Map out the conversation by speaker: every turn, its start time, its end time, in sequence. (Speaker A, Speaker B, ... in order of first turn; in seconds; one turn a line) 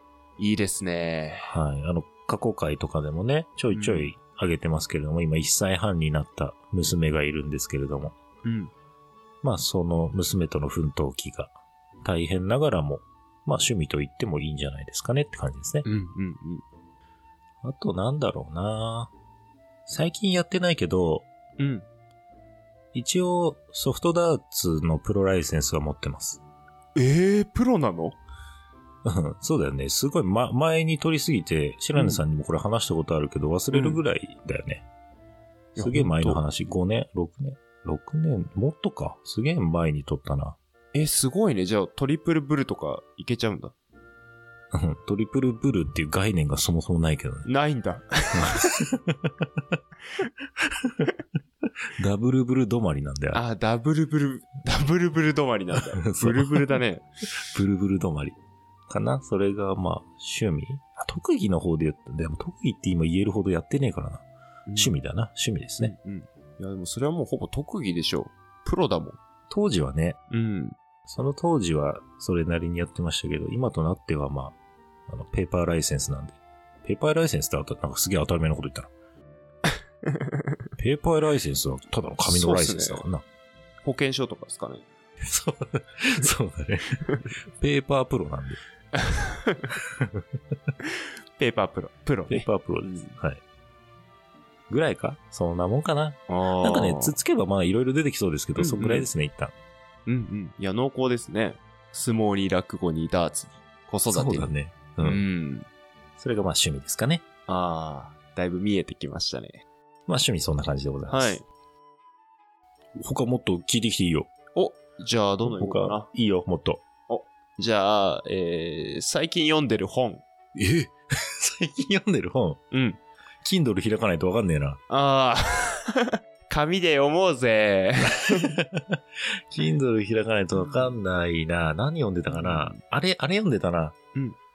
Speaker A: 0.4-1.6
Speaker B: 1.4-8.2
Speaker A: 3.7-4.1
Speaker A: 8.4-8.7
Speaker B: 9.4-15.8
Speaker A: 15.8-16.6
Speaker B: 17.6-19.1
Speaker B: 19.9-21.3
Speaker A: 21.6-21.9
Speaker B: 22.9-26.4
Speaker A: 26.9-28.2
Speaker B: 29.0-34.9
Speaker A: 31.9-32.2
Speaker A: 33.7-34.0
Speaker A: 35.8-36.4
Speaker B: 35.8-40.6
Speaker A: 40.9-43.7
Speaker B: 44.7-47.5
Speaker A: 47.5-48.7
Speaker B: 48.4-49.4
Speaker B: 50.8-51.1
Speaker B: 52.0-53.4
Speaker A: 53.3-57.0
Speaker B: 55.9-56.8
Speaker B: 57.5-58.4
Speaker B: 58.9-65.9
Speaker A: 64.7-65.0
Speaker A: 65.8-69.2
Speaker B: 69.5-70.2
Speaker A: 70.3-70.8
Speaker B: 71.1-74.6
Speaker B: 75.1-78.9
Speaker A: 80.0-80.4
Speaker B: 80.8-83.2
Speaker A: 82.2-83.0
Speaker A: 83.8-84.8
Speaker B: 85.2-87.0
Speaker B: 87.6-88.6
Speaker A: 89.0-89.7
Speaker A: 91.4-93.2
Speaker B: 92.3-93.4
Speaker B: 94.7-99.5
Speaker A: 96.3-97.2
Speaker A: 98.5-99.1
Speaker A: 100.0-105.7
Speaker B: 104.1-105.2
Speaker B: 106.2-107.2
Speaker A: 107.5-109.6
Speaker B: 110.1-111.4
Speaker A: 111.1-111.4
Speaker B: 113.0-114.3
Speaker A: 114.5-116.1
Speaker B: 115.5-116.8
Speaker A: 117.1-120.2
Speaker B: 120.5-122.6
Speaker A: 122.7-123.0
Speaker B: 123.4-124.8
Speaker A: 124.9-128.5
Speaker B: 128.1-129.0
Speaker B: 129.5-133.9
Speaker A: 132.3-132.8